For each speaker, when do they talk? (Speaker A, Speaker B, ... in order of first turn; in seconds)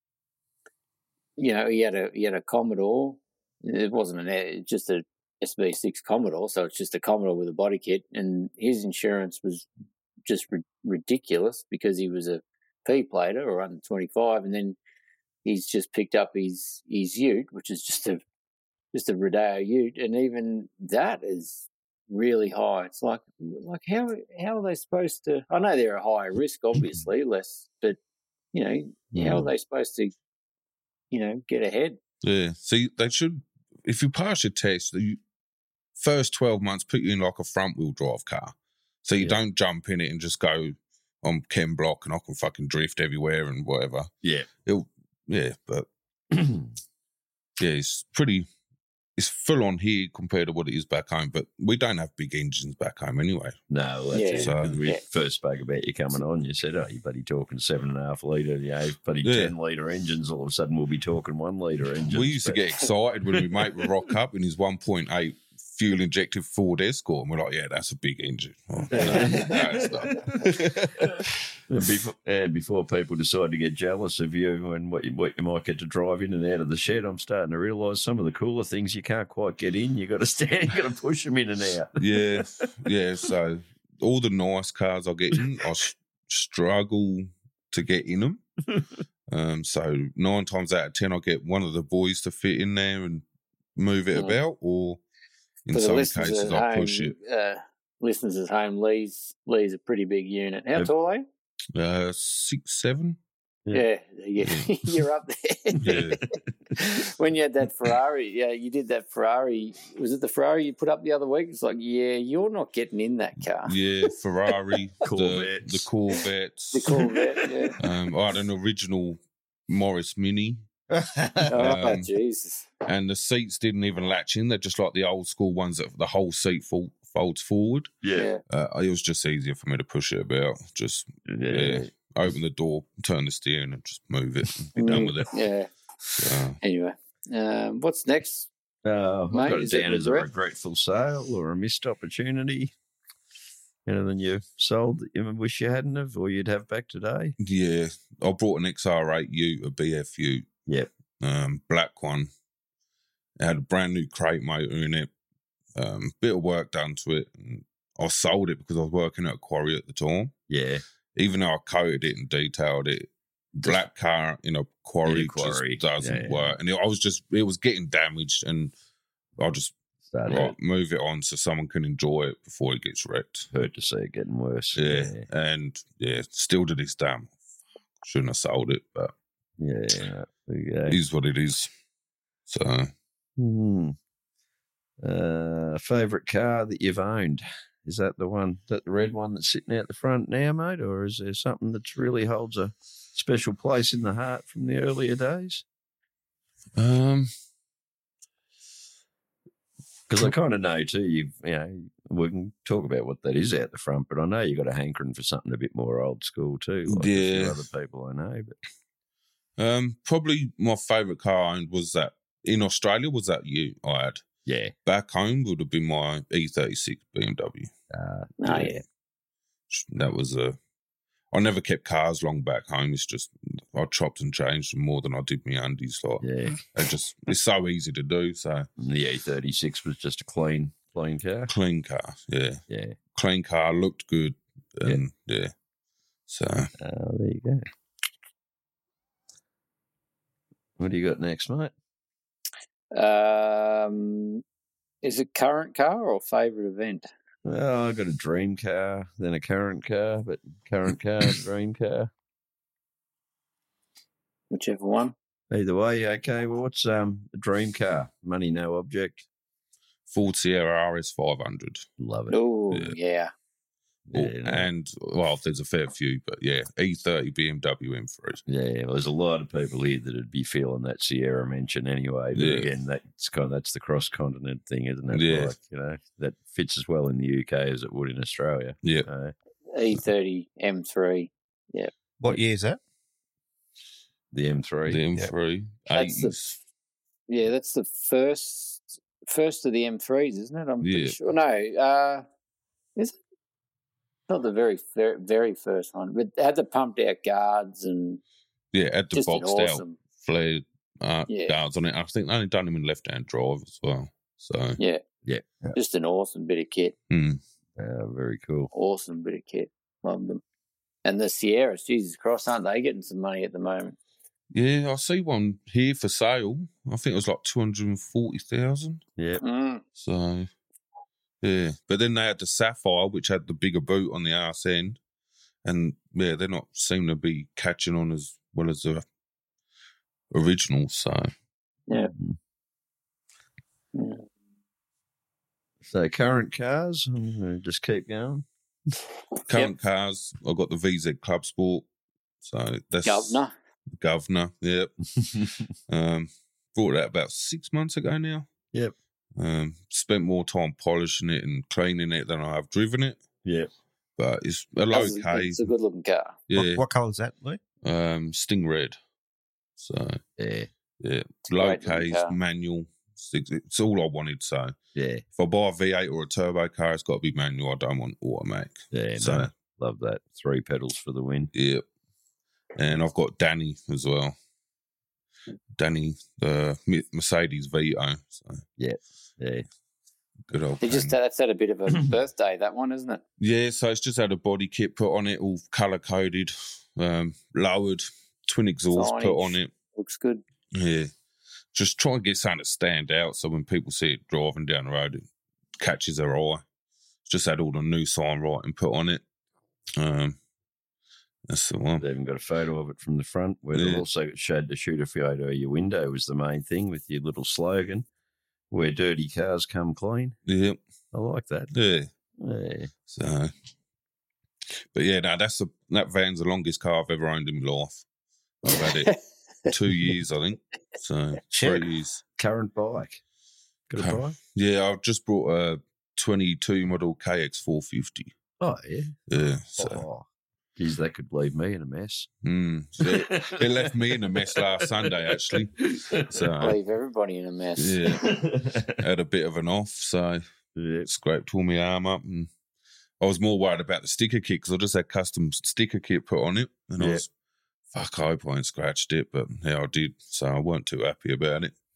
Speaker A: 1.4-9.7, 10.2-14.8, 15.4-18.2, 18.9-28.0, 28.5-30.1, 31.1-32.0, 54.1-55.0, 69.0-69.5, 94.1-94.4, 95.7-101.2, 103.7-106.1, 106.7-113.7, 116.7-117.8, 121.5-122.7, 128.1-128.4, 134.8-135.7, 136.6-138.5, 139.3-140.3, 218.4-218.8, 242.9-244.4, 245.0-247.1, 254.5-255.1, 262.3-263.3, 279.7-281.9, 285.9-286.3, 287.3-292.2, 294.3-298.2, 299.1-300.0, 301.3-301.6, 305.7-306.9, 308.7-310.4, 311.0-314.0, 319.4-319.8, 333.9-334.2, 343.0-343.5, 354.9-356.3, 361.5-362.4, 380.8-383.2, 388.9-390.4, 418.7-419.2, 436.6-438.0
Speaker B: 29.1-29.5, 44.2-44.5, 46.3-46.7, 53.7-62.6, 68.9-82.6, 115.0-115.9, 128.0-128.3, 131.2-131.9, 134.8-135.1, 138.8-142.7, 143.8-147.3, 160.5-160.8, 163.6-163.8, 165.0-166.6, 170.1-170.5, 173.5-175.2, 179.6-181.0, 183.4-183.9, 185.0-195.6, 200.1-208.6, 214.4-214.7, 217.9-218.8, 226.2-226.6, 228.8-231.5, 232.7-233.0, 236.8-237.6, 240.8-241.7, 247.4-252.1, 255.5-259.2, 262.0-262.4, 264.1-264.7, 268.5-279.3, 284.3-285.0, 307.8-308.7, 319.2-319.4, 335.8-338.5, 345.2-345.6, 353.4-353.7, 360.4-360.7, 364.9-365.2, 368.9-371.5, 378.8-379.6, 402.0-408.1, 408.7-410.4, 411.1-411.7, 412.4-412.9, 422.4-423.2, 423.9-424.4, 428.6-429.1, 429.8-430.2, 430.8-432.3, 433.0-436.5, 438.1-439.0, 440.8-441.1, 447.0-447.2
Speaker C: 32.2-35.2, 36.0-44.1, 44.6-45.9, 47.6-48.5, 49.2-53.6, 54.4-54.8, 59.2-59.5, 62.1-71.1, 82.0-88.4, 89.3-93.2, 93.8-95.0, 95.7-97.1, 101.7-103.2, 104.4-104.7, 105.8-106.2, 113.6-117.0, 117.8-120.6, 121.5-122.1, 122.8-127.9, 128.5-135.3, 136.2-136.6, 147.4-150.5, 151.2-152.3, 153.4-155.1, 155.8-160.3, 161.2-163.1, 163.6-168.7, 169.4-173.5, 174.7-177.3, 178.0-179.1, 180.9-181.7, 182.5-182.9, 196.8-197.3, 206.9-207.6, 209.6-214.3, 214.8-217.7, 219.7-220.6, 221.3-228.7, 231.5-232.6, 233.1-235.5, 236.3-236.7, 260.1-261.9, 262.7-262.9, 264.1-268.4, 272.3-272.7, 275.1-275.5, 284.9-286.6, 290.8-291.1, 298.7-304.8, 307.1-307.4, 314.5-319.0, 319.9-320.5, 321.4-325.0, 325.6-329.0, 330.3-331.3, 339.5-341.9, 342.4-343.4, 344.0-344.9, 345.9-348.5, 349.4-353.2, 354.2-355.7, 356.5-356.8, 357.8-358.9, 359.8-360.2, 361.0-364.8, 365.4-369.5, 371.5-371.8, 372.8-374.3, 375.8-378.6, 380.5-381.1, 383.4-389.7, 390.7-391.1, 391.7-395.2, 395.8-396.6, 397.3-399.2, 400.0-400.4, 401.5-402.0, 403.7-404.0, 410.4-410.8, 411.7-412.1, 413.1-413.5, 414.9-418.0, 418.6-422.2, 423.9-428.3, 429.3-430.0, 432.4-436.8, 437.8-440.4, 441.1-442.5, 443.2-447.3, 447.9-451.7
Speaker D: 120.9-121.6, 282.2-282.8, 356.5-357.6, 421.5-421.9